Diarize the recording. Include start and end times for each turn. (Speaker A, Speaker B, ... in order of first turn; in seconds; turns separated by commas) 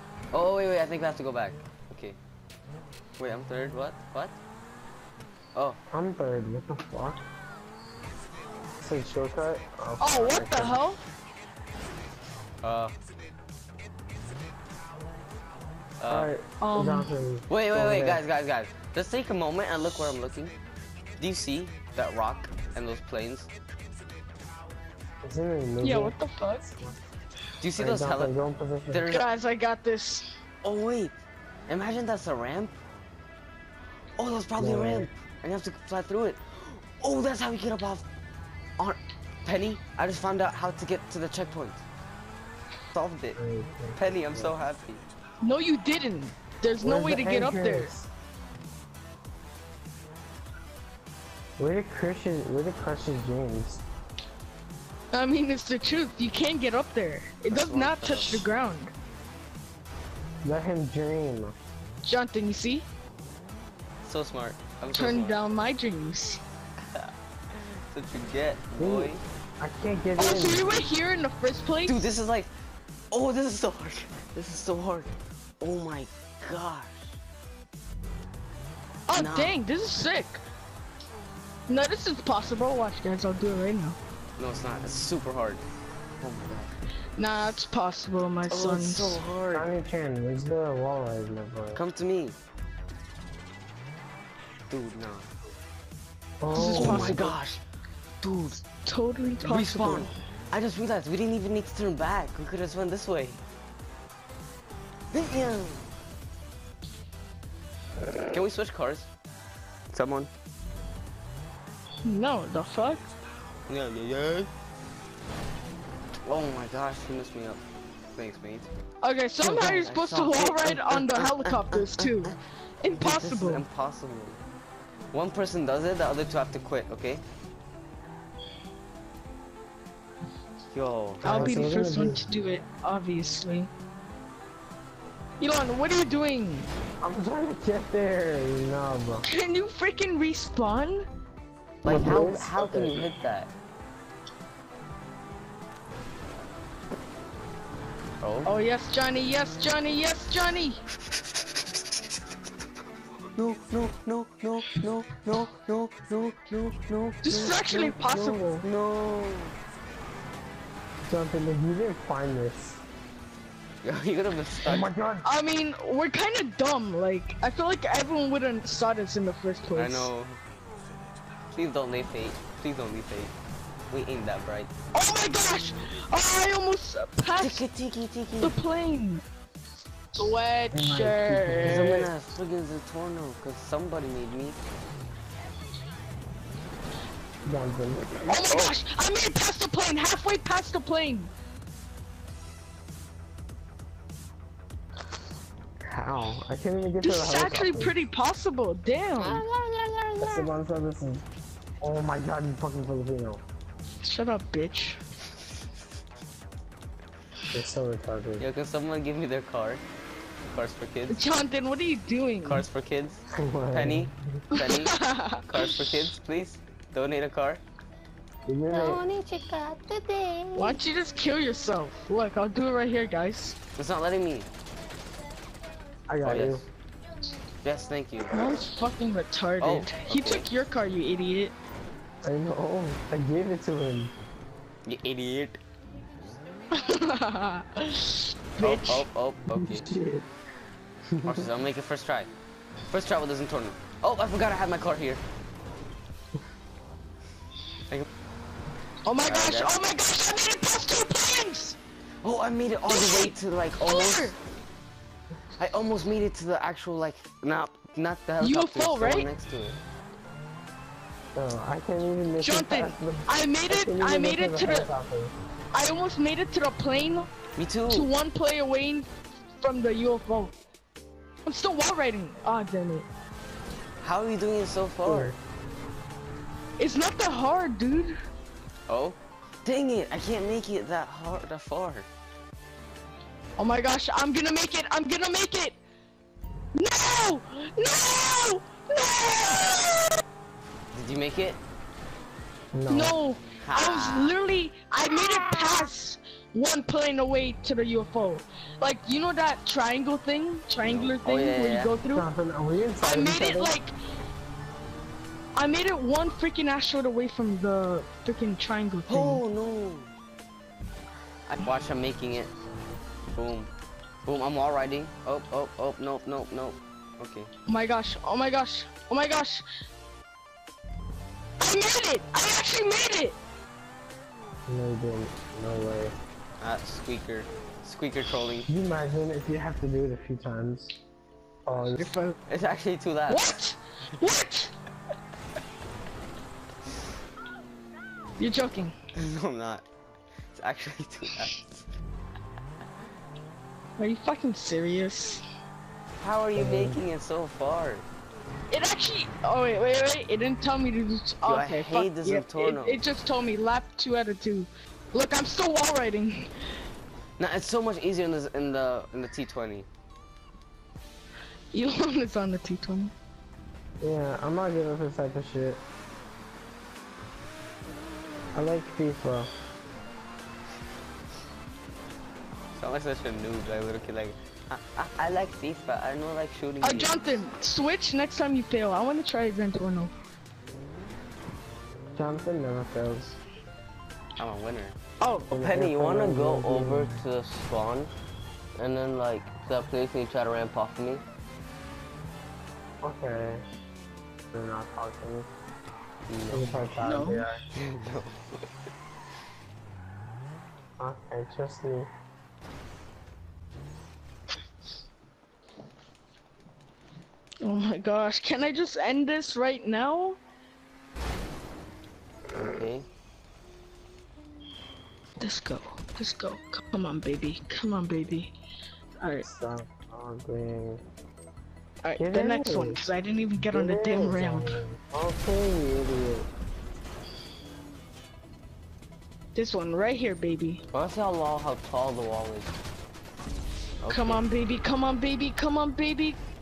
Speaker A: 0.3-2.2, Speaker A: 3.2-4.4, Speaker B: 5.9-7.2, Speaker B: 8.8-10.8, Speaker C: 10.0-11.0, Speaker A: 12.6-13.0, Speaker A: 16.0-16.3, Speaker B: 16.1-18.2, Speaker C: 16.6-17.1, Speaker A: 17.5-20.5, Speaker A: 21.2-23.5, Speaker B: 25.2-26.1, Speaker C: 25.8-26.7, Speaker A: 27.6-28.4, Speaker B: 27.8-29.1, Speaker A: 28.9-29.3, Speaker C: 29.1-30.4, Speaker A: 30.6-31.1, Speaker A: 31.7-32.8, Speaker A: 34.2-38.0, Speaker B: 34.6-35.1, Speaker A: 38.8-41.8, Speaker A: 42.9-43.4, Speaker B: 43.4-44.6, Speaker A: 44.0-45.0, Speaker C: 45.4-47.9, Speaker B: 46.8-48.1, Speaker B: 51.6-53.8, Speaker C: 55.1-58.9, Speaker A: 57.5-58.5, Speaker B: 60.4-61.6, Speaker C: 62.0-62.9, Speaker A: 64.0-65.5, Speaker C: 64.9-66.4, Speaker A: 66.9-69.2, Speaker B: 68.8-70.7, Speaker C: 70.2-72.0, Speaker A: 71.9-72.5, Speaker A: 73.1-77.0, Speaker C: 79.1-80.4, Speaker A: 79.1-79.6, Speaker C: 81.7-84.0, Speaker A: 84.4-85.6, Speaker A: 86.2-86.7, Speaker C: 87.2-89.2, Speaker A: 88.5-89.7, Speaker B: 89.5-91.8, Speaker A: 91.7-92.4, Speaker A: 94.7-95.3, Speaker B: 96.4-97.2, Speaker C: 96.5-97.4, Speaker A: 96.5-97.6, Speaker A: 98.2-98.6, Speaker C: 98.8-100.1, Speaker A: 99.4-103.4, Speaker A: 105.1-106.0, Speaker A: 108.3-109.1, Speaker A: 109.9-110.3, Speaker C: 112.0-113.1, Speaker A: 113.7-114.5, Speaker A: 116.3-117.6, Speaker A: 118.1-118.7, Speaker C: 119.0-123.7, Speaker A: 119.4-122.3, Speaker A: 123.0-124.4, Speaker A: 125.1-127.2, Speaker A: 130.7-131.8, Speaker C: 131.2-133.7, Speaker B: 131.2-132.3, Speaker C: 135.4-136.7, Speaker B: 137.0-139.3, Speaker C: 139.2-141.1, Speaker A: 141.8-143.5, Speaker B: 141.8-143.1, Speaker A: 148.2-148.5, Speaker C: 148.4-150.8, Speaker A: 153.3-157.7, Speaker C: 157.2-158.4, Speaker B: 157.6-158.7, Speaker A: 158.6-159.6, Speaker B: 161.1-162.8, Speaker A: 163.8-164.9, Speaker B: 164.6-165.3, Speaker C: 165.2-170.1, Speaker A: 169.7-170.4, Speaker A: 171.5-173.3, Speaker A: 173.9-174.7, Speaker C: 174.9-177.6, Speaker A: 177.4-178.6, Speaker C: 178.4-179.2, Speaker C: 180.1-182.0, Speaker B: 180.7-182.1, Speaker A: 181.6-184.6, Speaker B: 187.4-188.4, Speaker C: 188.3-191.3, Speaker A: 188.5-188.8, Speaker B: 195.9-198.0, Speaker C: 197.0-199.5, Speaker A: 199.2-200.5, Speaker B: 200.2-201.2, Speaker B: 201.8-203.4, Speaker C: 204.0-205.0, Speaker B: 207.5-208.5, Speaker A: 208.4-209.8, Speaker A: 210.5-211.2, Speaker C: 211.1-212.7, Speaker A: 212.4-217.6, Speaker B: 213.3-214.2, Speaker C: 214.6-215.8, Speaker B: 218.5-219.1, Speaker A: 218.7-220.8, Speaker C: 220.6-223.6, Speaker A: 223.8-224.5, Speaker B: 226.1-226.7, Speaker A: 226.2-226.7, Speaker A: 227.6-228.3, Speaker C: 228.3-231.6, Speaker A: 229.6-230.5, Speaker B: 232.2-234.1, Speaker A: 234.9-235.6, Speaker C: 236.7-239.1, Speaker A: 238.6-239.9, Speaker B: 239.6-240.3, Speaker B: 241.1-241.5, Speaker A: 241.2-242.3, Speaker A: 242.9-245.2, Speaker C: 249.1-251.8, Speaker A: 249.2-249.8, Speaker A: 252.2-254.4, Speaker C: 252.9-254.4, Speaker A: 255.6-259.8, Speaker C: 258.4-259.3, Speaker B: 261.4-265.4, Speaker C: 262.4-264.9, Speaker C: 265.7-267.3, Speaker A: 267.6-268.1, Speaker C: 267.9-269.1, Speaker C: 269.6-270.5, Speaker C: 271.4-273.1, Speaker A: 274.0-275.4, Speaker B: 275.0-275.4, Speaker C: 276.8-278.1, Speaker A: 278.9-282.1, Speaker C: 283.6-285.8, Speaker C: 286.8-290.2, Speaker A: 290.9-291.6, Speaker B: 292.7-293.2, Speaker C: 292.9-302.3, Speaker A: 293.6-294.4, Speaker A: 300.8-302.0, Speaker B: 302.1-303.8, Speaker C: 303.0-303.9, Speaker C: 305.6-309.4, Speaker A: 309.1-310.1, Speaker A: 311.5-312.5, Speaker A: 313.3-313.7, Speaker A: 314.2-317.5, Speaker C: 317.7-319.7, Speaker C: 321.6-323.4, Speaker B: 324.7-326.1, Speaker A: 326.6-328.7, Speaker B: 328.7-330.9, Speaker B: 331.6-332.1, Speaker C: 331.8-332.4, Speaker A: 332.5-333.6, Speaker C: 333.3-334.7, Speaker C: 338.4-338.9, Speaker A: 339.1-339.9, Speaker A: 340.6-341.9, Speaker C: 344.0-345.4, Speaker A: 346.2-348.1, Speaker B: 346.6-347.0, Speaker C: 348.7-356.5, Speaker A: 351.4-353.0, Speaker A: 357.4-359.9, Speaker C: 361.7-363.1, Speaker B: 364.0-365.8, Speaker B: 368.6-369.5, Speaker A: 372.8-377.2, Speaker C: 376.8-380.1, Speaker B: 382.2-383.4, Speaker A: 384.4-385.0, Speaker C: 385.2-385.5, Speaker B: 385.5-387.2, Speaker A: 385.5-388.1, Speaker A: 388.8-391.2, Speaker B: 393.0-393.7, Speaker B: 394.5-395.5, Speaker A: 396.3-397.0, Speaker B: 396.5-397.6, Speaker C: 397.0-397.4, Speaker A: 397.8-398.6, Speaker B: 401.0-402.1, Speaker C: 407.6-410.4, Speaker A: 412.5-413.1, Speaker C: 415.4-418.5, Speaker C: 419.2-419.4, Speaker B: 419.4-421.0, Speaker C: 422.0-424.8, Speaker B: 422.2-423.0, Speaker B: 423.6-426.5, Speaker C: 429.6-430.8, Speaker A: 430.9-432.8, Speaker A: 434.0-434.4, Speaker C: 434.1-436.4